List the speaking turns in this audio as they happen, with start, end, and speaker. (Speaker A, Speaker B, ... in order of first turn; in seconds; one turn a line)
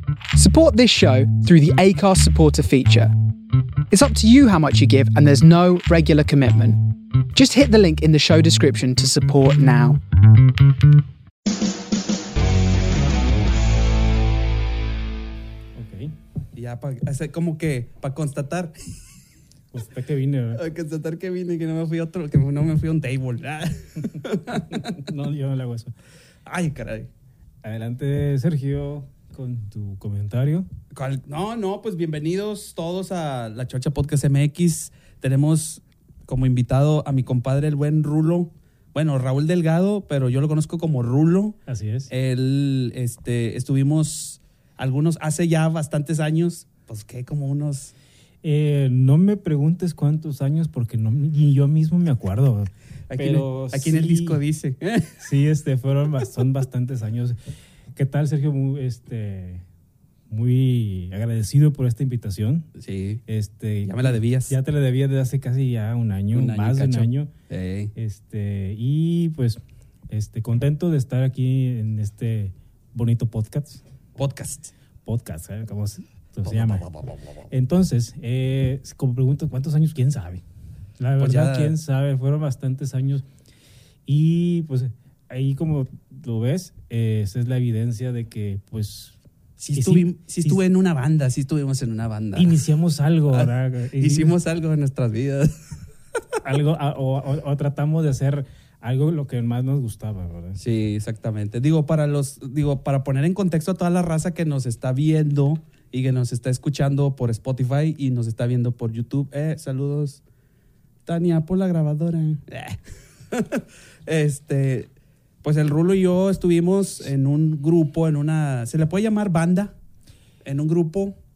Speaker A: 0.3-3.1
Speaker A: 3.9-10.0
Speaker B: 15.7-16.1
Speaker C: 16.5-18.7
Speaker B: 19.7-20.6
Speaker C: 20.5-25.0
Speaker B: 24.7-25.9
Speaker C: 26.4-27.1
Speaker B: 27.6-30.7
Speaker C: 30.9-41.6
Speaker B: 41.7-42.1
Speaker C: 42.1-47.9
Speaker B: 48.4-54.4
Speaker C: 53.1-55.2
Speaker B: 55.2-57.4
Speaker B: 57.9-59.6
Speaker B: 60.3-62.7
Speaker C: 62.8-63.2
Speaker B: 63.3-67.3
Speaker C: 63.8-64.5
Speaker C: 66.3-67.9
Speaker B: 67.9-73.8
Speaker C: 74.2-74.7
Speaker B: 75.0-76.9
Speaker C: 76.5-77.2
Speaker B: 77.5-80.4
Speaker B: 81.0-83.2
Speaker C: 81.2-81.8
Speaker B: 84.0-89.2
Speaker C: 89.6-92.6
Speaker B: 89.7-90.6
Speaker B: 92.3-94.3
Speaker C: 93.3-95.5
Speaker B: 96.4-100.6
Speaker C: 100.6-110.2
Speaker C: 111.0-112.8
Speaker C: 113.3-114.9
Speaker C: 115.4-119.7
Speaker C: 120.4-121.2